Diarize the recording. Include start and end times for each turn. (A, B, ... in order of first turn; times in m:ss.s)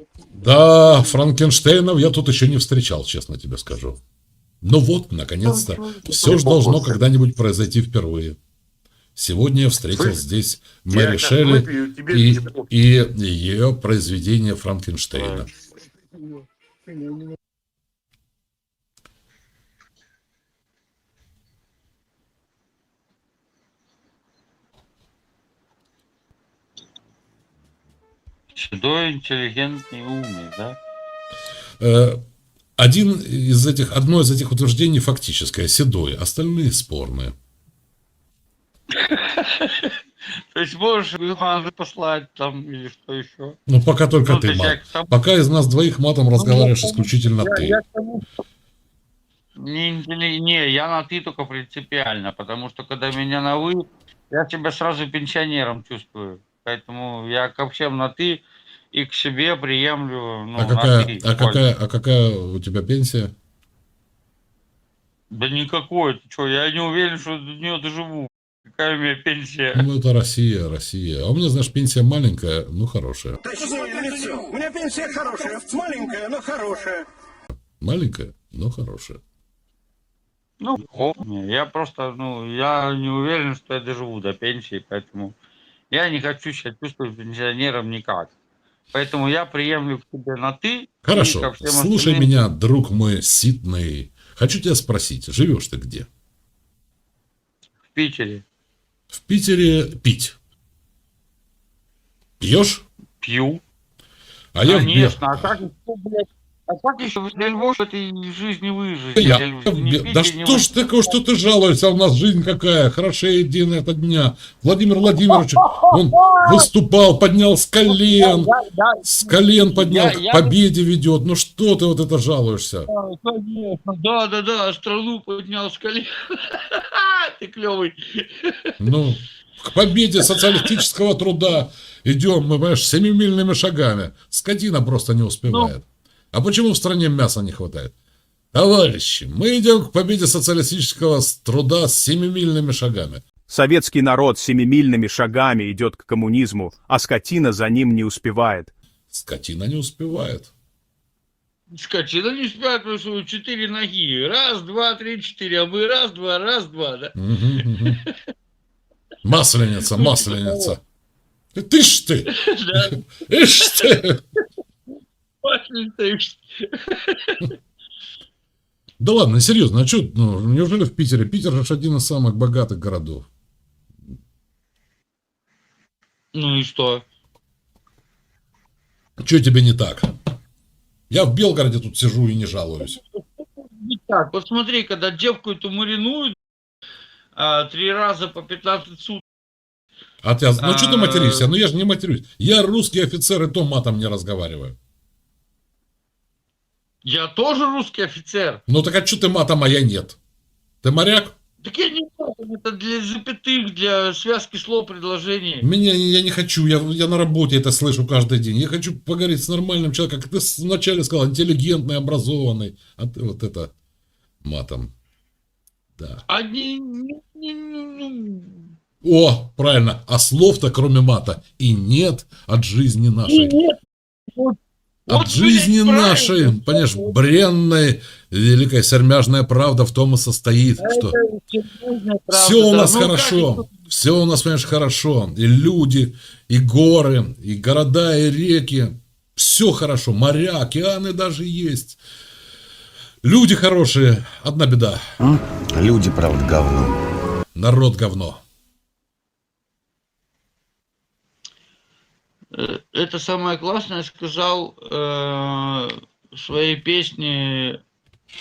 0:00.4-0:04.0 A
0:04.6-0:08.4 A
0:05.4-0:07.0 B
0:09.2-0:15.5 A
0:09.9-0:10.2 B
0:10.9-0:12.6 B
0:15.2-0:15.4 B
0:28.5-0:30.8 C
0:31.8-0:32.2 A
0:32.8-0:37.3 A
0:38.9-0:40.0 C
0:40.5-0:43.6 C
0:43.7-0:47.8 A
0:44.2-0:45.1 C
0:46.4-0:48.2 C
0:49.6-1:01.6 C
1:00.6-1:03.3 A
1:05.3-1:09.8 C
1:09.7-1:13.4 A
1:13.6-1:16.3 D
1:13.7-1:16.8 E
1:17.8-1:19.2 A
1:20.6-1:25.3 C
1:25.9-1:28.3 C
1:28.9-1:32.3 C
1:31.0-1:36.1 A
1:37.9-1:38.4 C
1:39.1-1:40.3 A
1:42.4-1:42.8 A
1:43.2-1:43.6 C
1:44.5-1:45.5 A
1:44.6-1:50.7 C
1:49.2-1:58.5 A
1:55.1-1:56.7 C
1:57.9-2:00.6 C
1:59.0-2:02.9 A
2:02.9-2:08.7 C
2:08.8-2:17.9 A
2:10.2-2:10.7 C
2:15.5-2:15.7 C
2:18.5-2:23.2 A
2:23.5-2:28.7 E
2:29.1-2:30.5 A
2:31.7-2:37.1 C
2:37.2-2:38.0 A
2:37.6-2:38.2 C
2:39.2-2:40.8 A
2:39.9-2:40.7 C
2:41.6-2:44.2 A
2:42.3-2:44.0 C
2:45.4-2:47.5 C
2:49.0-2:53.3 A
2:56.3-2:57.0 C
2:59.2-3:00.1 A
3:01.1-3:03.0 A
3:02.8-3:06.4 C
3:07.3-3:09.2 C
3:10.2-3:14.8 A
3:10.6-3:11.5 C
3:17.0-3:18.6 C
3:18.7-3:20.2 A
3:20.8-3:21.3 A
3:21.6-3:25.7 C
3:25.6-3:33.7 A
3:34.4-3:34.9 A
3:36.0-3:36.2 A
3:36.3-3:38.7 C
3:39.0-3:43.5 A
3:43.3-3:43.8 C
3:45.1-3:47.2 C
3:45.1-3:51.1 A
3:50.8-3:53.6 C
3:52.3-4:02.0 A
4:03.2-4:05.0 A
4:05.2-4:07.0 B
4:07.5-4:08.4 A
4:12.5-4:17.8 C